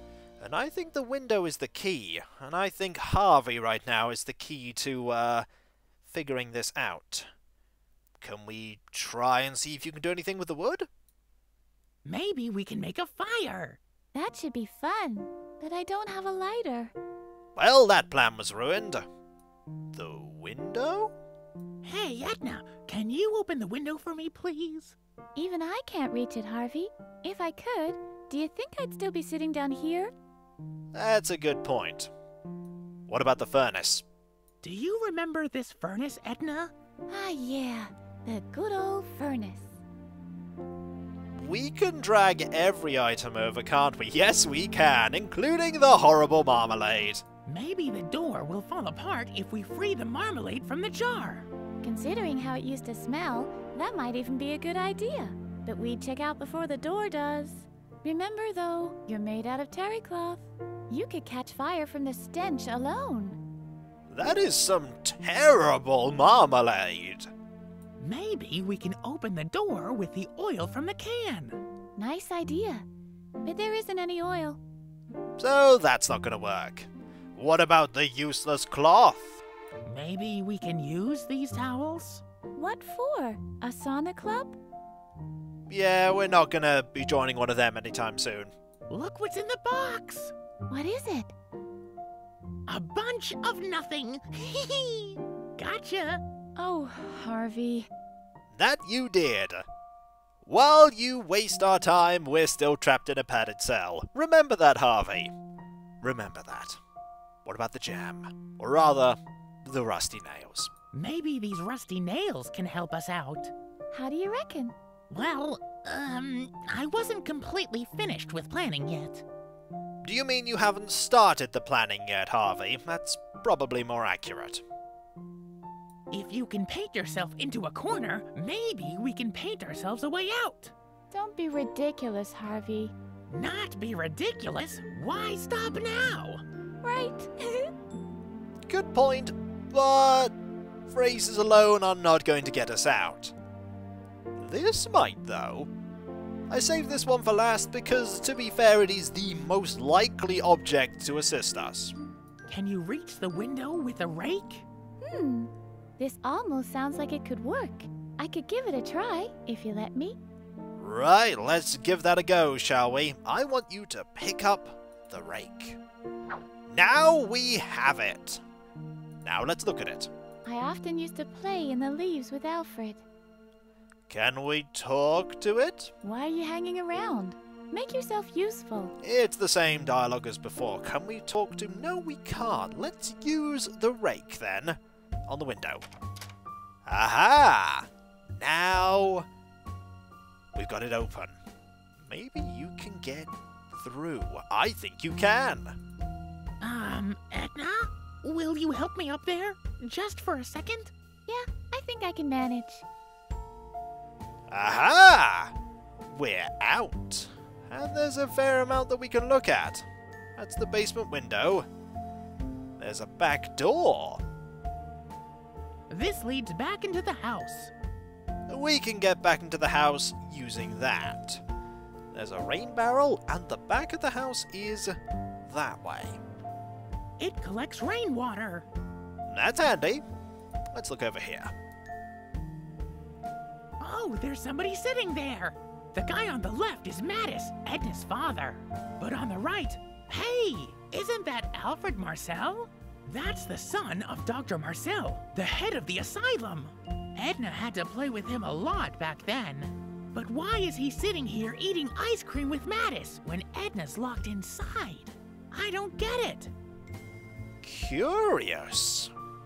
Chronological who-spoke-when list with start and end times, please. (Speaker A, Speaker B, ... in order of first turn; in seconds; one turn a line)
Speaker A: 0.4-5.5
Speaker A: 6.0-7.3
Speaker A: 8.2-10.9
Speaker B: 12.0-13.8
Speaker C: 14.1-16.9
Speaker A: 17.6-19.1
Speaker A: 19.9-21.1
Speaker B: 21.8-24.9
Speaker C: 25.4-30.1
Speaker A: 30.9-32.1
Speaker A: 33.1-34.0
Speaker B: 34.6-36.7
Speaker C: 37.1-39.8
Speaker A: 41.4-47.2
Speaker B: 47.5-51.5
Speaker C: 51.8-63.4
Speaker A: 64.1-67.3
Speaker B: 68.0-71.6
Speaker C: 72.0-72.8
Speaker C: 73.4-74.6
Speaker A: 75.4-79.4
Speaker B: 79.8-82.2
Speaker C: 82.5-84.6
Speaker A: 85.7-88.5
Speaker B: 88.9-90.3
Speaker C: 90.7-91.3
Speaker B: 92.7-96.2
Speaker C: 96.6-97.9
Speaker A: 98.5-99.7
Speaker A: 100.4-105.3
Speaker A: 106.0-106.8
Speaker A: 107.4-110.7
Speaker B: 110.9-113.5
Speaker C: 113.9-114.7
Speaker B: 115.1-119.2
Speaker A: 120.0-124.6
Speaker B: 126.1-130.7
Speaker C: 131.1-132.9
Speaker B: 133.3-136.4
Speaker C: 136.8-137.7
Speaker A: 138.7-140.3
Speaker A: 140.9-143.3
Speaker A: 144.4-145.7
Speaker A: 146.5-151.9
Speaker B: 152.5-154.6
Speaker C: 155.0-160.2
Speaker A: 160.8-165.8
Speaker A: 166.7-168.4
Speaker A: 169.2-170.1
Speaker C: 170.4-173.0
Speaker A: 174.1-175.9
Speaker C: 176.0-178.9
Speaker A: 179.0-185.8
Speaker A: 186.8-189.3
Speaker A: 190.5-191.4
Speaker A: 192.0-195.8
Speaker B: 196.6-200.9
Speaker C: 201.3-202.8
Speaker A: 204.5-209.8
Speaker A: 210.4-211.7
Speaker A: 212.8-214.2
Speaker B: 215.9-217.7
Speaker A: 218.5-221.4
Speaker A: 222.1-224.9
Speaker A: 225.5-226.2
Speaker B: 227.2-228.7
Speaker A: 229.3-230.0
Speaker A: 230.7-231.5
Speaker B: 233.8-256.5
Speaker A: 257.6-259.1